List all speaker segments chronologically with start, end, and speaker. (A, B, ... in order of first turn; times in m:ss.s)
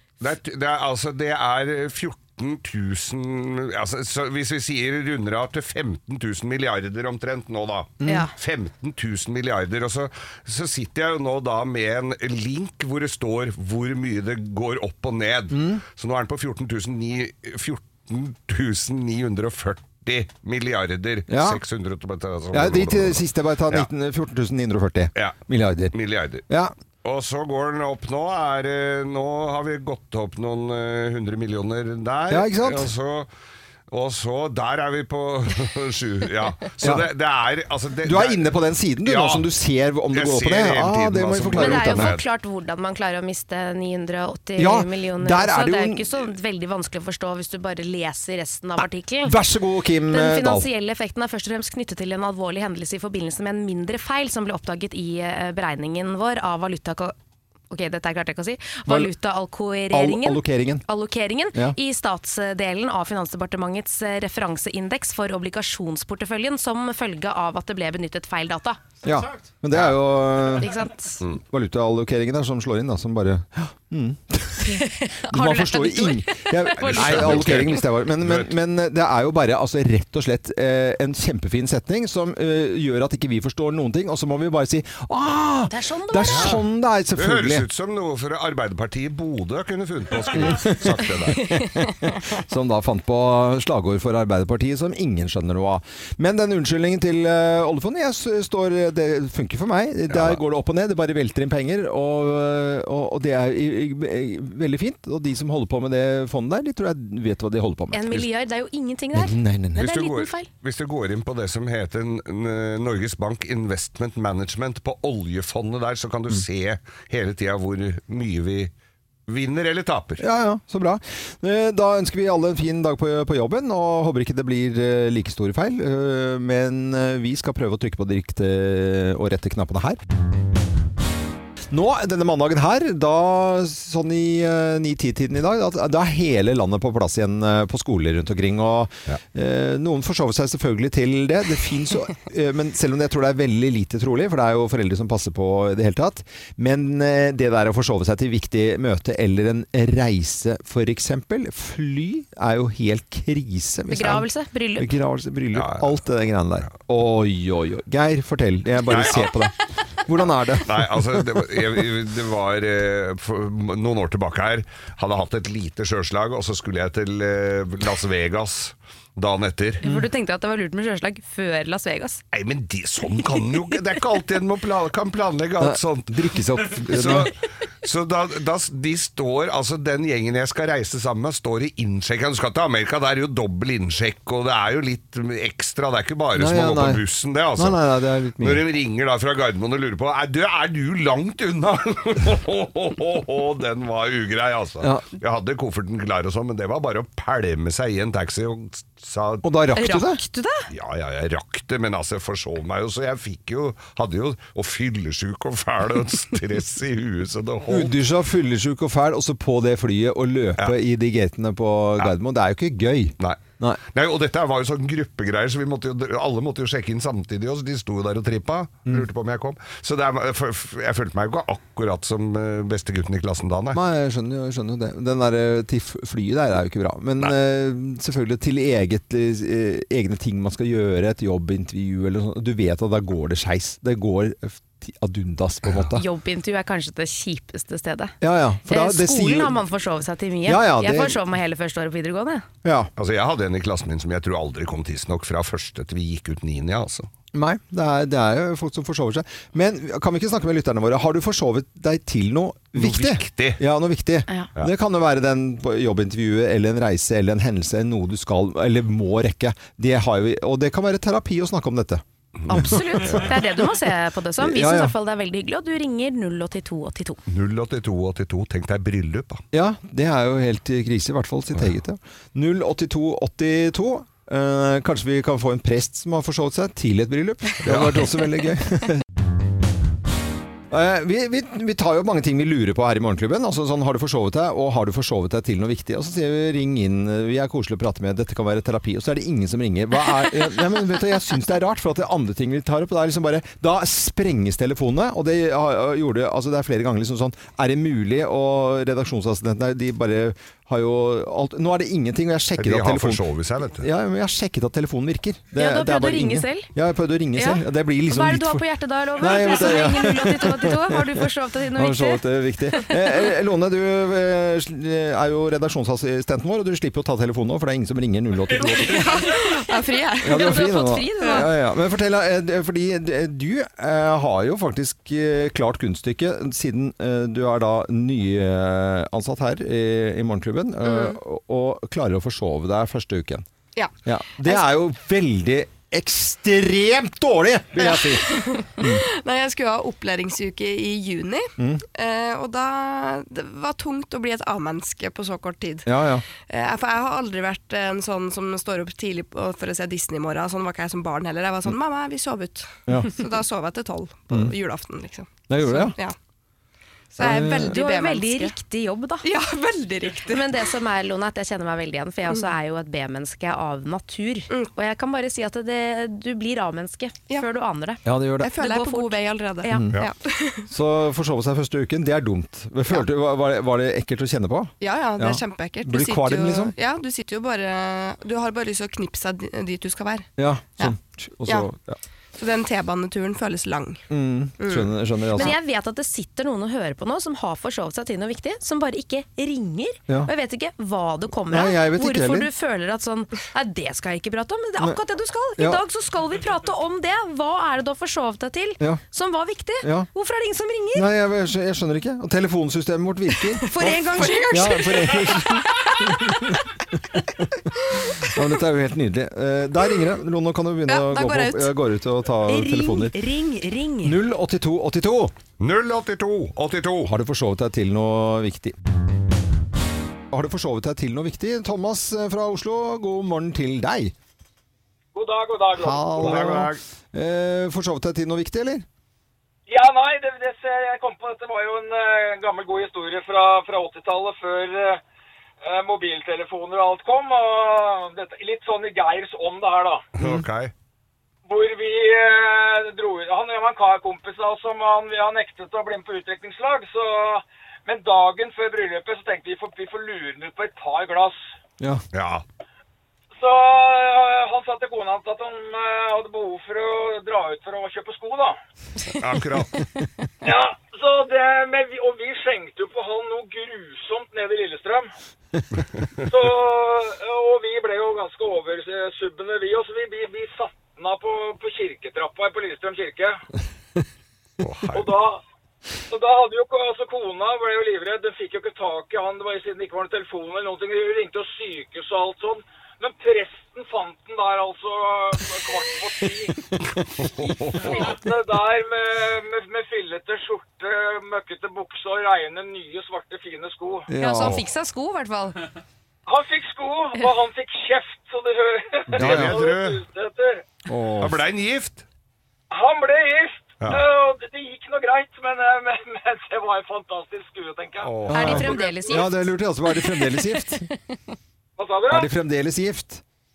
0:00.2-0:23.9 A
0:08.1-0:08.3 B
0:15.5-0:15.8 C
0:21.3-0:21.6 C
0:22.5-0:26.0 C
0:25.2-0:25.4 A
0:25.9-0:26.5 A
0:26.5-0:26.7 C
0:27.0-0:33.3 A
0:32.3-0:32.9 C
0:33.9-0:39.5 A
0:36.8-0:37.1 C
0:38.0-0:42.1 C
0:40.1-0:42.2 A
0:41.6-0:49.4 B
0:44.6-0:46.0 C
0:48.8-0:50.7 C
0:50.1-0:57.1 B
0:57.7-1:08.8 B
0:59.9-1:00.8 C
1:09.0-1:10.7 C
1:10.6-1:11.2 B
1:11.4-1:27.7 C
1:14.6-1:17.8 B
1:16.8-1:18.5 A
1:25.7-1:26.6 B
1:26.3-1:26.6 A
1:27.2-1:31.5 A
1:30.4-1:48.2 C
1:40.1-1:40.4 A
1:47.9-1:50.5 B
1:49.2-1:49.8 C
1:49.8-1:58.7 A
1:59.3-2:00.2 A
2:00.2-2:10.0 C
2:11.7-2:41.2 C
2:33.9-2:34.9 B
2:35.5-2:36.0 A
2:38.8-2:39.4 A
2:40.6-2:49.8 A
2:49.8-2:52.2 B
2:52.3-3:07.8 A
2:55.6-2:57.3 C
3:06.4-3:08.6 C
3:08.4-3:19.4 A
3:19.4-3:20.2 C
3:19.8-3:20.7 B
3:20.7-3:28.0 A
3:27.7-3:33.8 C
3:33.2-3:43.8 A
3:43.7-3:56.0 C
3:56.0-3:58.2 B
3:58.2-3:59.6 C
3:58.7-4:02.5 B
4:00.5-4:01.2 C
4:02.6-4:02.9 C
4:03.0-4:07.1 A
4:07.3-4:23.3 C
4:12.8-4:13.6 A
4:22.4-4:23.4 A
4:22.5-4:27.2 B
4:24.4-4:24.9 C
4:27.3-4:29.4 A
4:29.5-4:39.0 C
4:37.6-4:38.2 A
4:40.7-5:03.2 C
5:02.6-5:03.9 A
5:03.8-5:08.6 C
5:05.6-5:06.7 B
5:07.4-5:13.0 B
5:09.2-5:11.2 C
5:11.8-5:19.3 C
5:18.6-5:20.6 D
5:19.0-5:19.4 B
5:20.2-5:33.4 C
5:20.3-5:21.5 B
5:30.8-5:31.2 D
5:34.0-5:39.0 C
5:37.8-5:56.2 D
5:41.6-5:41.8 C
5:45.9-5:46.2 C
5:52.9-5:53.1 C
5:55.5-5:56.0 C
5:57.1-5:58.5 D
5:57.2-5:57.8 C
5:57.7-5:59.3 B
5:59.2-6:00.6 D
6:00.3-6:08.0 B
6:08.0-6:08.5 C
6:08.4-6:10.6 D
6:08.6-6:09.9 B
6:09.7-6:10.0 C
6:10.7-6:16.7 C
6:14.8-6:21.0 D
6:20.4-6:22.0 C
6:22.4-6:24.0 D
6:24.1-6:25.6 C
6:24.6-6:25.5 D
6:25.4-6:41.1 B
6:31.5-6:32.5 C
6:39.8-6:40.1 C
6:40.9-6:46.6 C
6:43.6-6:46.0 D
6:43.7-6:45.0 B
6:47.1-6:47.7 C
6:48.2-6:53.2 C
6:50.9-6:51.7 D
6:52.5-6:54.2 B
6:54.0-6:55.3 C
6:55.6-6:57.1 A
6:57.1-6:58.8 C
7:00.3-7:04.1 C
7:05.1-7:06.5 E
7:05.8-7:08.9 C
7:06.2-7:06.8 A
7:09.7-7:15.0 E
7:15.6-7:20.0 E
7:20.2-7:20.7 A
7:21.5-7:31.4 E
7:32.1-7:32.4 A
7:33.4-7:38.6 E
7:39.1-7:39.8 A
7:40.4-7:45.1 E
7:46.2-7:53.4 E
7:54.6-7:55.1 A
7:54.9-7:55.4 E
7:56.1-8:06.7 E
8:07.4-8:08.2 A
8:07.7-8:14.1 E
8:14.1-8:14.6 C
8:14.2-8:15.6 B
8:16.3-8:20.7 E
8:19.1-8:20.0 A
8:19.2-8:19.6 C
8:20.9-8:21.4 C
8:21.2-8:22.0 A
8:22.7-8:29.2 E
8:28.0-8:28.7 A
8:28.3-8:30.9 C
8:28.3-8:30.5 B
8:31.8-8:32.3 E
8:32.1-8:33.2 C